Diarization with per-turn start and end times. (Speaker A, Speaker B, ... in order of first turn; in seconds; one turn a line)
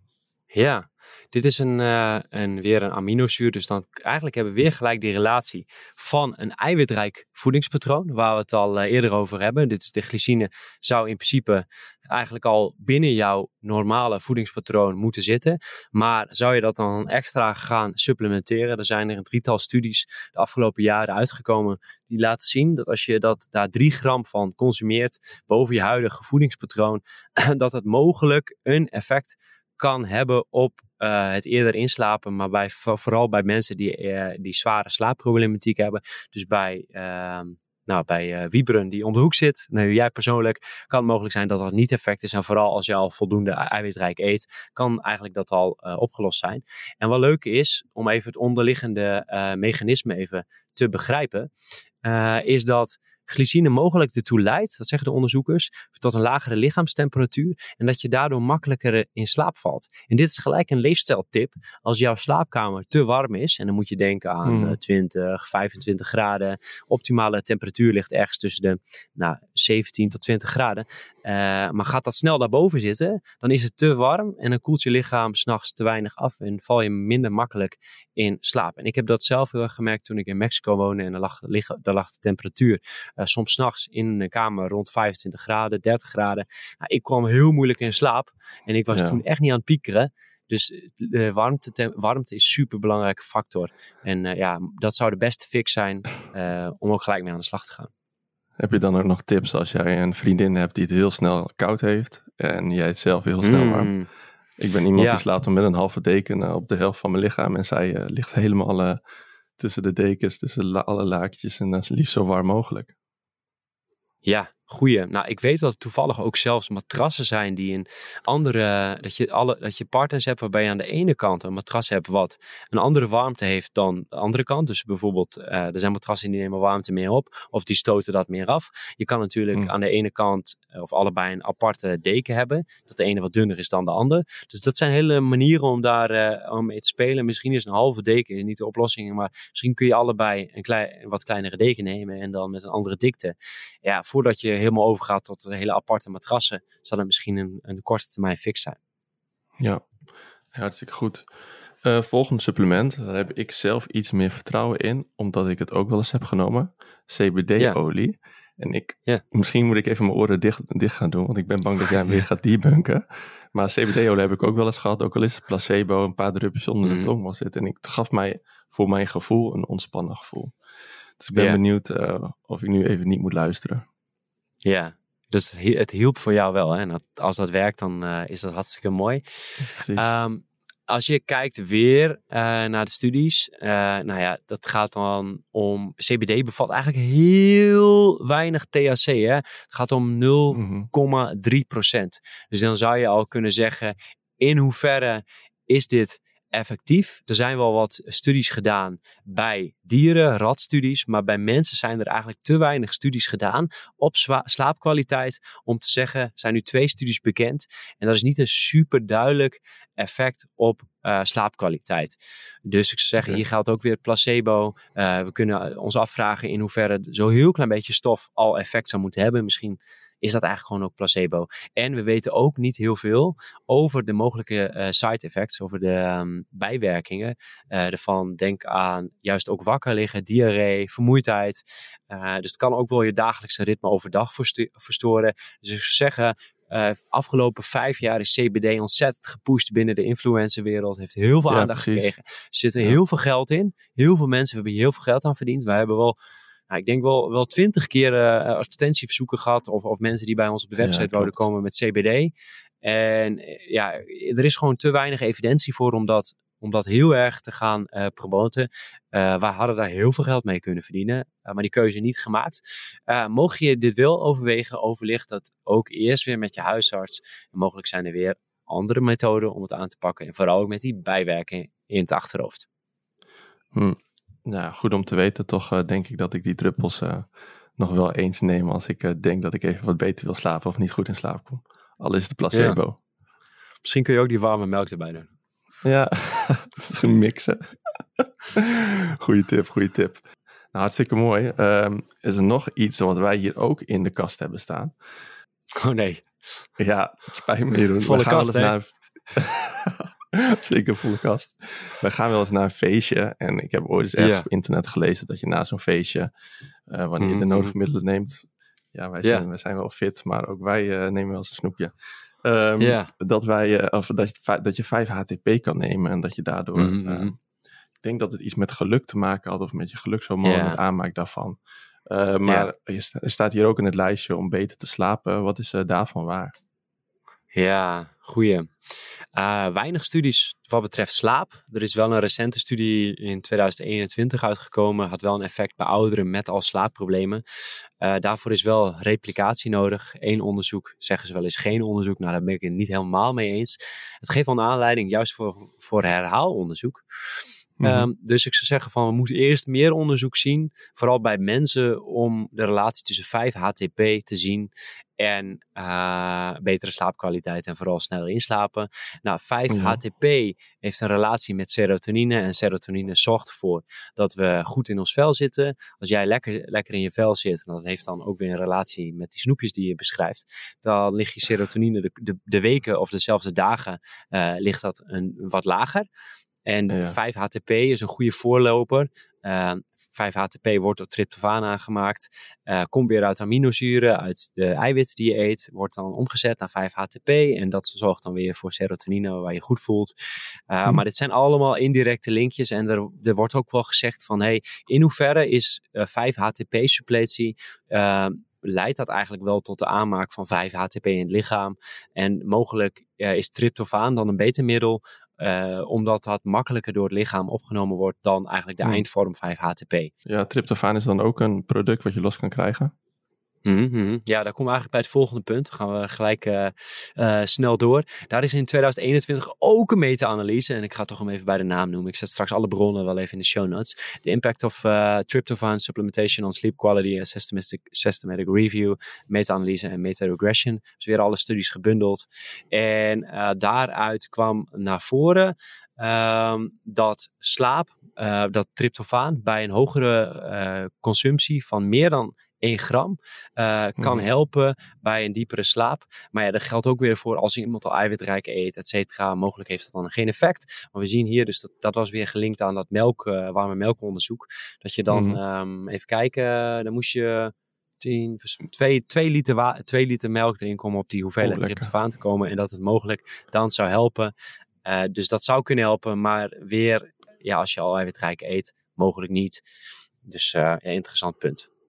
Speaker A: 0.5-51.5
Speaker A: 52.0-97.9
Speaker B: 64.4-64.8
Speaker B: 88.9-89.2
Speaker B: 98.6-103.9
Speaker A: 103.4-104.1
Speaker B: 104.6-109.0
Speaker A: 105.0-105.2
Speaker B: 109.6-112.9
Speaker A: 114.2-148.8
Speaker B: 149.6-149.8
Speaker B: 150.5-151.3
Speaker B: 151.8-170.5
Speaker A: 166.8-167.1
Speaker B: 171.2-173.8
Speaker A: 174.6-179.2
Speaker B: 179.6-180.1
Speaker A: 179.9-246.2
Speaker B: 190.5-190.9
Speaker B: 241.5-242.1
Speaker A: 246.7-252.3
Speaker B: 250.8-251.4
Speaker A: 252.8-272.6
Speaker B: 273.7-283.0
Speaker A: 282.5-282.8
Speaker A: 283.8-285.3
Speaker B: 285.8-294.9
Speaker A: 295.8-296.3
Speaker B: 296.8-306.3
Speaker A: 298.0-298.7
Speaker A: 304.2-304.5
Speaker B: 306.9-311.9
Speaker A: 307.2-307.7
Speaker B: 312.4-317.3
Speaker A: 312.8-313.1
Speaker A: 316.8-317.3
Speaker B: 318.0-326.5
Speaker A: 320.4-320.8
Speaker A: 322.4-322.7
Speaker A: 327.5-328.7
Speaker A: 329.3-337.4
Speaker A: 338.0-347.0
Speaker B: 347.8-348.1
Speaker A: 347.8-376.1
Speaker B: 359.7-360.0
Speaker A: 376.6-390.1
Speaker B: 376.9-377.1
Speaker A: 390.7-410.1
Speaker B: 410.2-412.9
Speaker A: 413.6-464.3
Speaker B: 444.0-444.2
Speaker B: 455.1-455.4
Speaker B: 461.4-461.9
Speaker A: 464.8-469.6
Speaker A: 470.2-471.7